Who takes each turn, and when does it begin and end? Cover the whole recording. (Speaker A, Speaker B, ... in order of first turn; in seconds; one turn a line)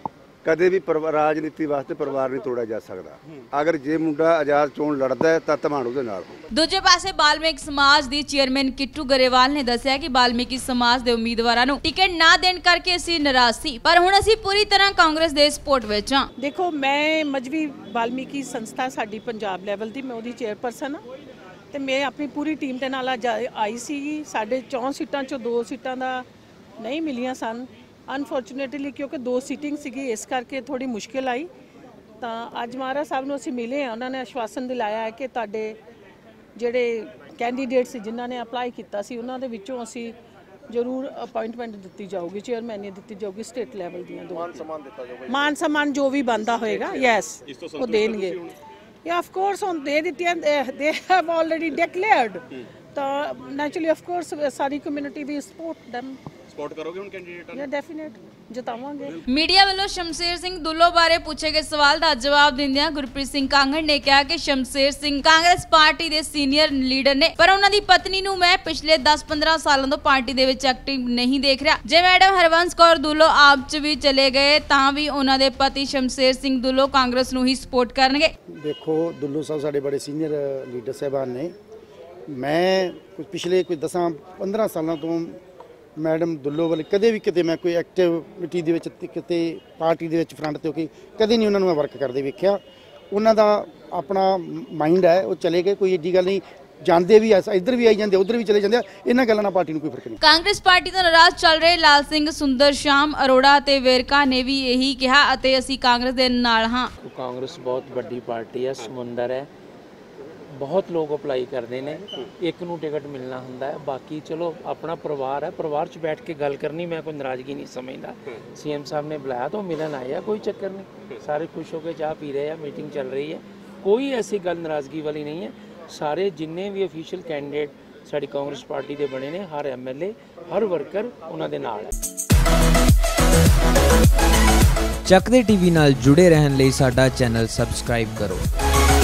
Speaker A: 0.4-6.4
Speaker B: 6.5-16.3
Speaker C: 16.4-21.0
Speaker C: 21.7-26.3
Speaker C: 26.8-31.5
Speaker C: 32.2-35.8
Speaker C: 36.6-40.1
Speaker C: 40.7-44.7
Speaker C: 45.3-48.4
Speaker D: 47.5-48.4
Speaker C: 49.0-52.4
Speaker C: 53.0-56.2
Speaker D: 56.6-57.6
Speaker C: 57.5-59.2
Speaker B: 59.3-78.3
Speaker E: 78.5-81.5
Speaker E: 82.3-85.4
Speaker E: 86.0-92.6
Speaker E: 93.1-100.2
Speaker B: 100.2-106.9
Speaker F: 107.0-109.5
Speaker F: 110.5-131.9
Speaker G: 135.1-138.4